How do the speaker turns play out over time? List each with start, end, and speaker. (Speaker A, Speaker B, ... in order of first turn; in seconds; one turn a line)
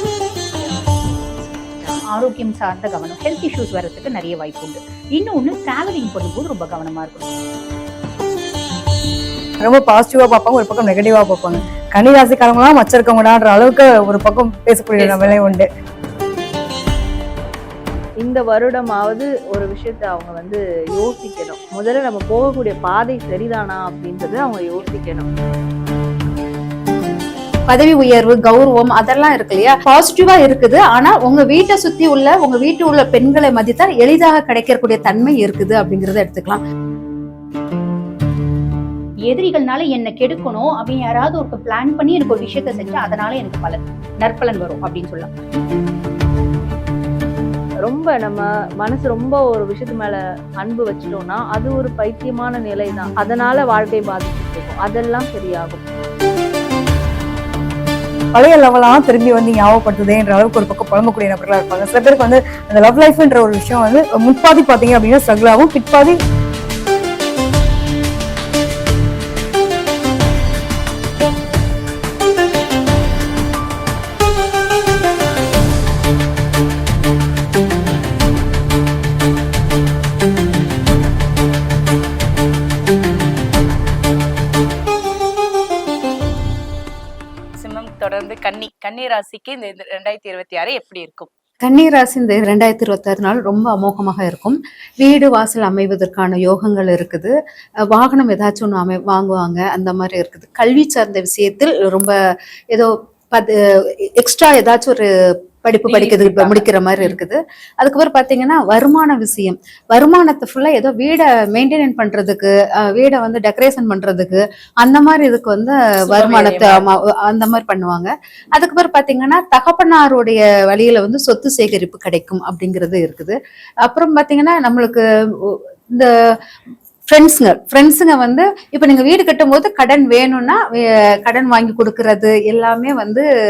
Speaker A: 1.9-7.2
Speaker B: 9.6-15.7
Speaker C: 15.0-15.5
Speaker D: 18.2-25.3
Speaker E: 27.7-36.6
Speaker A: 39.3-45.3
Speaker D: 47.9-55.8
Speaker B: 58.3-66.2
Speaker C: 87.6-91.3
Speaker E: 91.6-97.3
Speaker E: 97.9-102.1
Speaker E: 102.7-103.5
Speaker E: 104.1-105.1
Speaker E: 105.6-126.1
Speaker C: 105.8-107.2
Speaker C: 116.1-116.9
Speaker E: 127.1-133.2